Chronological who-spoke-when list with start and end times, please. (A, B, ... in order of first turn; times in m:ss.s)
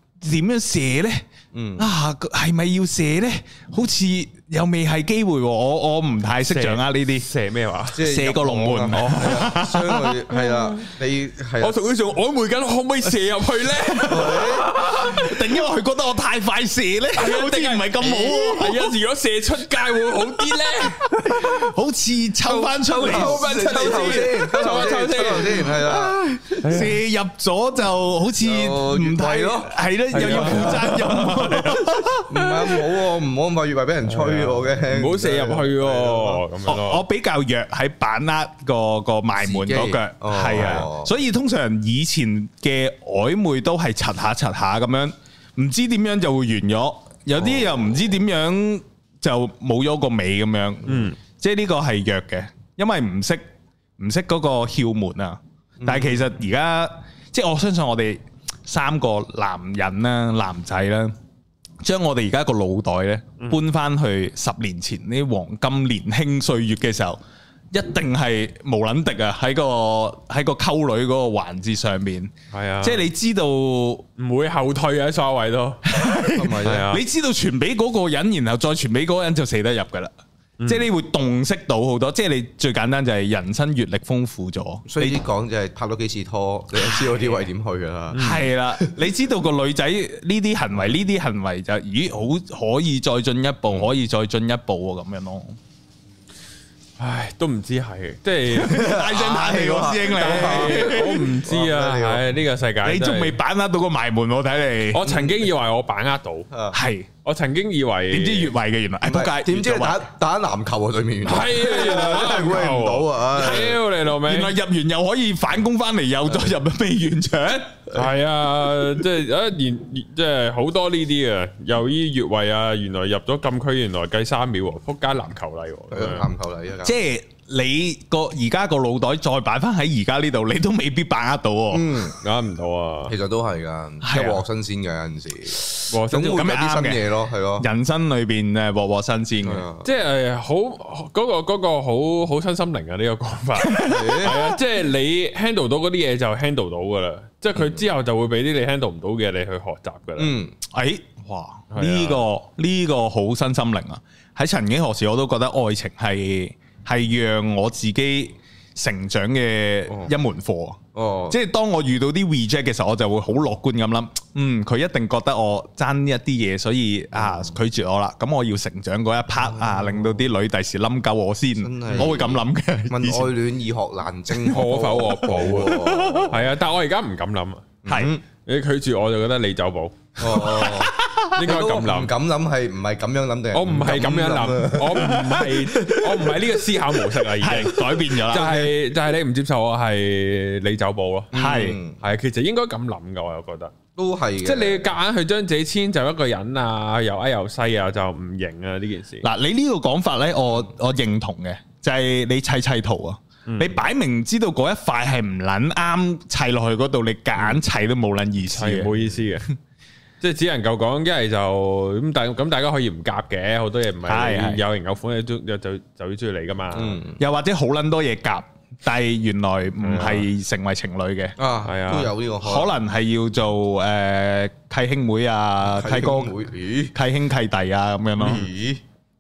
0:00.2-0:01.2 A
0:01.5-0:01.9 B
0:01.8-0:07.2 A
0:06.5-0:08.0 C
0:07.9-0:11.8 B
0:08.0-0:10.2 A
0:09.0-0:09.5 C
0:11.6-0:15.4 C
0:13.8-0:14.4 A
0:14.0-0:14.7 B
0:14.9-0:18.9 A
0:17.1-0:21.6 C
0:18.0-0:18.4 B
0:21.0-0:24.3 A
0:22.4-0:26.4 B
0:22.9-0:25.7 C
0:25.6-0:32.4 A
0:26.6-0:27.0 C
0:28.4-0:31.3 B
0:30.1-0:32.8 C
0:32.3-0:36.4 B
0:34.1-0:37.0 C
0:36.7-0:53.4 A
0:39.4-0:41.1 B
0:40.5-0:40.8 C
0:50.9-0:51.2 C
0:54.0-1:01.1 A
0:55.8-0:56.2 B
1:01.8-1:07.2 A
1:07.7-1:14.0 A
1:12.5-1:13.0 C
1:14.2-1:15.9 C
1:15.8-1:20.1 A
1:16.4-1:16.9 B
1:16.6-1:17.0 C
1:20.6-1:20.9 C
1:20.6-1:25.2 A
1:24.9-1:29.0 B
1:28.1-1:28.5 C
1:28.2-1:35.6 A
1:37.0-1:38.9 C
1:38.5-1:41.3 A
1:38.6-1:42.3 B
1:40.1-1:43.4 C
1:42.8-1:45.2 A
1:44.9-1:46.5 C
1:45.0-1:45.3 B
1:46.5-1:46.8 B
1:46.7-1:47.1 A
1:47.2-1:48.5 C
1:48.1-1:50.0 A
1:49.0-1:53.8 B
1:51.2-1:54.5 C
1:54.2-1:57.8 A
1:57.9-2:06.3 C
2:05.9-2:07.0 B
2:06.8-2:12.1 A
2:11.7-2:12.2 B
2:12.2-2:13.1 C
2:13.1-2:17.7 B
2:14.0-2:14.4 A
2:15.9-2:16.4 C
2:16.1-2:19.6 A
2:19.4-2:19.8 B
2:19.8-2:30.3 C
2:23.6-2:24.6 A
2:23.8-2:24.4 B
2:30.2-2:30.6 B
2:30.7-2:53.3 A
2:31.7-2:32.2 C
2:40.9-2:41.4 B
2:47.2-2:47.5 B
2:49.4-2:50.2 B
2:51.6-2:56.5 B
2:54.4-2:57.7 C
2:55.6-2:56.3 A
2:57.8-2:58.2 B
2:57.9-2:58.1 A
2:58.4-3:00.7 C
3:00.2-3:06.0 B
3:00.6-3:01.3 A
3:01.3-3:02.1 C
3:03.5-3:11.3 C
3:05.0-3:05.4 A
3:07.4-3:08.7 A
3:11.3-3:12.0 B
3:11.3-3:11.8 A
3:12.0-3:13.7 C
3:14.0-3:14.9 B
3:14.4-3:19.2 C
3:19.2-3:28.9 A
3:23.5-3:23.8 C
3:28.5-3:29.4 C
3:30.2-3:37.0 C
3:34.0-3:34.6 A
3:36.7-3:37.2 B
3:37.2-3:41.4 A
3:39.8-3:40.3 C
3:41.4-3:42.7 B
3:41.6-3:42.1 C
3:42.4-3:46.3 A
3:45.6-3:46.9 B
3:46.9-3:48.4 A
3:48.2-3:48.8 B